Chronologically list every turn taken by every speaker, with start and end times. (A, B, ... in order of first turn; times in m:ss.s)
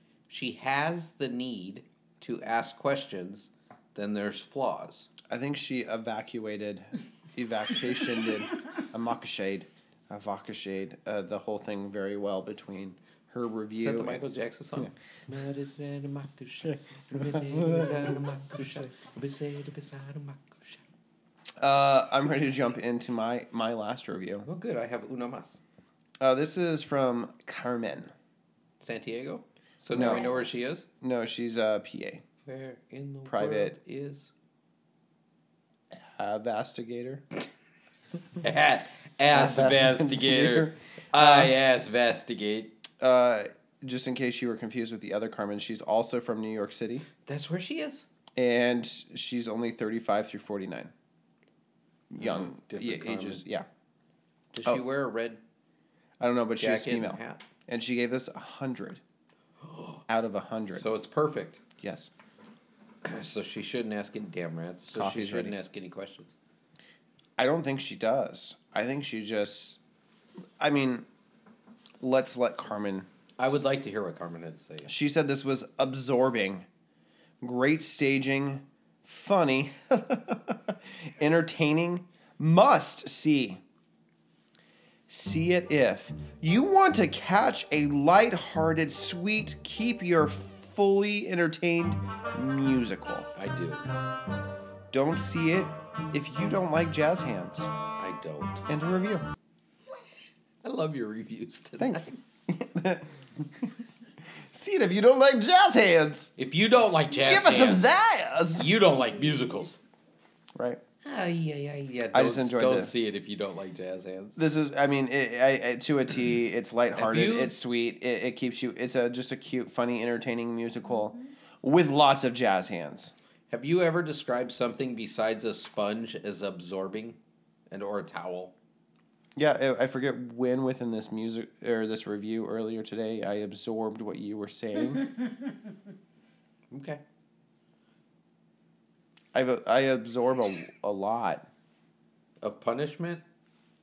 0:00.3-0:05.1 A
0:05.3-0:14.2 B
0:13.8-0:20.8 A
0:17.2-0:18.1 B
0:21.6-0:24.5 B
0:24.4-0:25.6 A
0:26.2-0:28.1 B
0:28.8-0:30.8 A
0:29.9-0:30.3 B
0:31.0-0:32.2 B
0:32.4-0:34.3 A
0:33.3-0:33.8 B
0:35.9-0:37.2 B
0:38.4-0:42.7 A
0:39.3-0:41.5 B
0:43.0-0:47.0 B
0:47.2-0:48.0 A
0:48.4-0:50.9 B
0:52.1-0:53.6 B
0:52.2-0:53.4 A
0:54.5-0:55.4 A
0:56.2-0:59.0 B
0:56.6-0:57.4 A
0:59.6-1:00.0 A
1:00.1-1:00.9 B
1:00.7-1:01.6 A
1:01.8-1:02.1 B
1:03.0-1:06.3 A
1:04.9-1:05.5 B
1:07.4-1:09.8 B
1:10.6-1:11.0 B
1:12.0-1:13.1 B
1:13.4-1:14.9 A
1:14.8-1:16.6 B
1:17.4-1:23.6 B
1:25.1-1:33.3 B
1:33.3-1:33.8 A
1:34.9-1:37.7 B
1:38.0-1:38.6 A
1:38.7-1:39.3 B
1:40.6-1:42.1 A
1:41.8-1:43.7 B
1:44.5-1:46.3 B
1:46.4-1:47.8 A
1:47.2-1:48.7 B
1:48.6-1:49.8 A
1:50.6-1:50.8 B
1:51.0-1:54.4 A
1:52.1-1:52.9 B
1:54.4-2:03.1 B
1:56.9-1:57.6 A
2:03.5-2:07.2 A
2:07.7-2:08.5 A
2:09.4-2:15.1 B
2:16.7-2:17.0 A
2:19.3-2:21.4 B
2:22.4-2:23.2 A